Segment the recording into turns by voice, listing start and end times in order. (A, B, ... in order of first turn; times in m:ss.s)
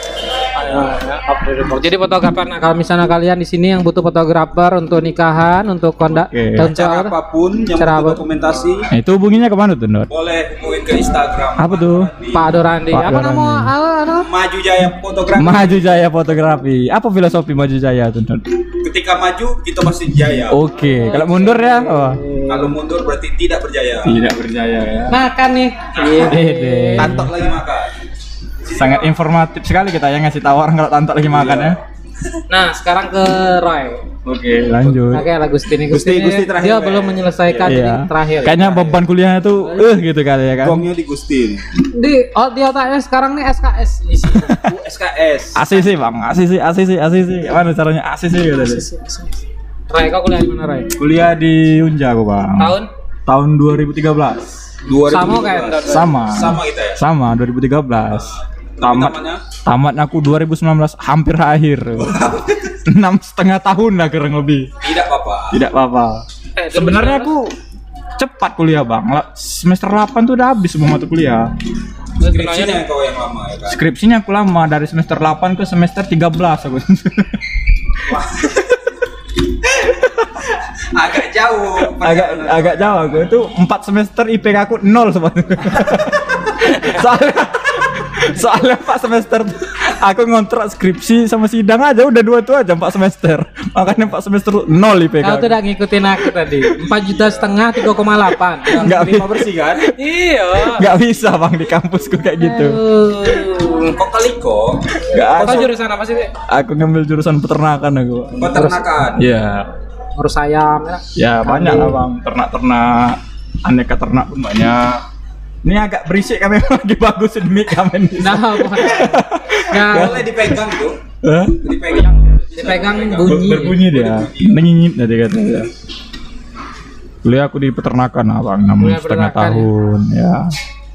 0:00.5-0:07.2 A
0:06.1-0:06.7 B
0:06.6-0:08.9 C
0:07.8-0:08.2 A
0:08.9-0:10.1 B
0:10.1-0:12.6 C
0:11.6-0:12.1 B
0:12.3-0:14.3 A
0:12.9-0:13.7 B
0:14.2-0:16.0 C
0:15.3-0:18.6 B
0:18.8-0:20.6 C
0:20.5-0:22.3 B
0:20.8-0:22.7 A
0:22.5-0:24.2 C
0:24.0-0:25.2 B
0:25.1-0:27.2 A
0:25.9-0:26.3 C
0:26.1-0:27.3 B
0:27.0-0:27.9 C
0:28.7-0:31.8 B
0:31.3-0:31.8 C
0:32.5-0:34.0 A
0:34.2-0:35.2 B
0:35.1-0:38.6 A
0:35.9-0:37.8 C
0:37.6-0:40.8 B
0:38.4-0:39.0 C
0:40.6-0:41.6 C
0:41.9-0:44.7 A
0:44.6-0:45.6 C
0:45.5-0:48.8 B
0:48.6-0:49.3 A
0:49.9-0:50.9 A
0:51.0-0:54.5 B
0:52.6-0:52.9 A
0:54.8-0:57.0 C
0:55.1-0:56.1 A
0:55.8-1:02.2 B
0:58.1-0:59.4 C
1:02.0-1:02.7 C
1:02.8-1:04.7 B
1:04.8-1:05.6 C
1:05.5-1:07.5 B
1:06.6-1:07.3 A
1:08.2-1:11.5 B
1:12.2-1:12.8 A
1:12.2-1:13.8 C
1:13.7-1:17.4 B
1:18.1-1:18.8 C
1:20.9-1:23.1 C
1:22.0-1:35.6 B
1:35.2-1:38.8 A
1:36.7-1:37.7 C
1:38.7-1:39.8 C
1:38.7-1:39.9 B
1:40.0-1:40.9 A
1:40.6-1:43.4 B
1:42.4-1:44.0 A
1:43.8-1:45.5 C
1:45.1-1:45.8 B
1:45.1-1:46.3 A
1:46.5-1:48.5 B
1:48.4-1:49.2 C
1:48.5-1:48.9 A
1:49.2-1:49.7 B
1:50.2-1:52.0 A
1:51.1-1:55.0 B
1:55.6-2:00.6 B
1:58.2-2:00.2 A
1:59.9-2:01.1 C
2:01.2-2:01.7 B
2:01.6-2:04.6 C
2:02.5-2:03.8 A
2:03.2-2:05.7 B
2:07.2-2:10.5 B
2:08.8-2:09.7 A